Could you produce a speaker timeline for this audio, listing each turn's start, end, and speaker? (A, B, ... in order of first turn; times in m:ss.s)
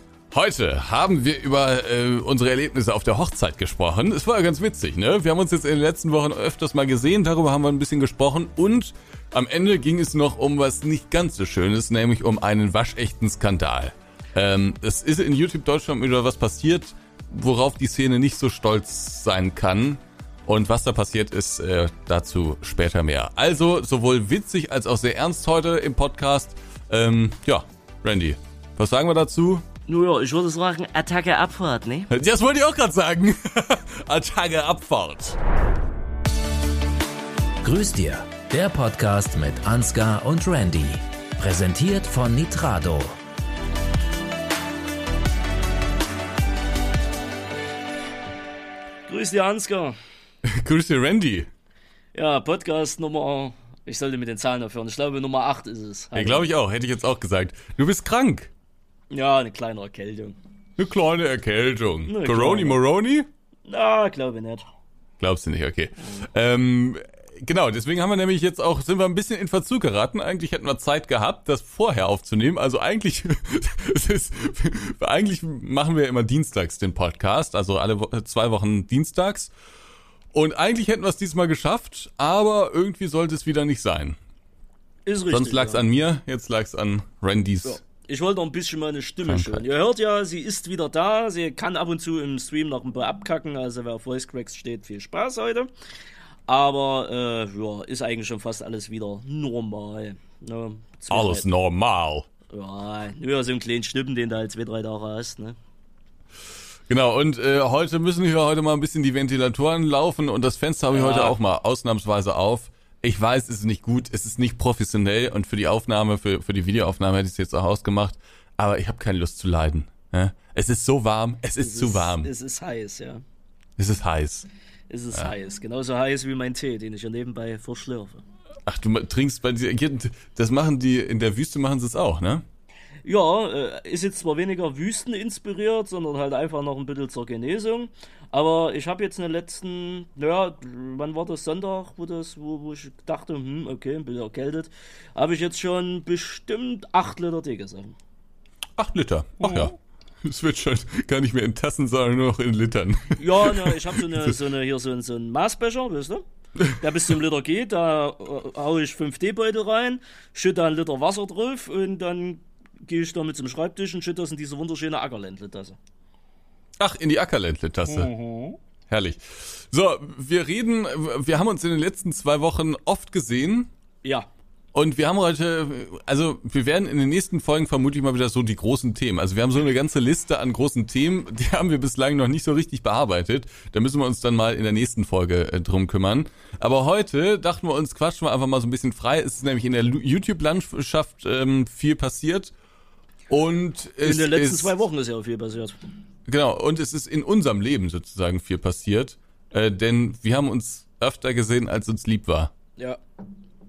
0:00.3-0:29.6 A
0:29.9-0:32.1 B
0:32.1-0:35.4 A
0:37.6-0:43.2 C
0:49.1-0:50.0 B
0:50.4-0:51.5 A
0:52.1-0:56.4 B
0:56.1-0:58.5 A
0:59.1-1:00.4 B
1:00.8-1:03.3 A
1:02.1-1:02.8 B
1:03.7-1:04.6 B
1:05.2-1:19.5 A
1:20.3-1:24.2 A
1:25.1-1:25.8 B
1:25.3-1:27.8 A
1:27.6-1:35.7 B
1:29.3-1:29.6 A
1:36.5-1:41.4 B
1:41.1-1:42.3 A
1:42.5-1:45.6 B
1:46.9-2:02.3 A
1:50.9-1:51.4 B
2:01.6-2:03.2 B
2:03.8-2:04.5 A
2:04.9-2:08.2 B
2:08.7-2:12.4 A
2:13.0-2:28.0 B
2:28.8-2:34.3 A
2:33.2-2:36.2 B
2:36.8-2:45.8 B
2:46.8-2:48.1 A
2:48.1-2:48.6 B
2:48.9-2:53.7 A
2:54.7-3:12.5 A
3:13.3-3:14.8 A
3:14.0-3:15.8 B
3:16.3-3:22.5 A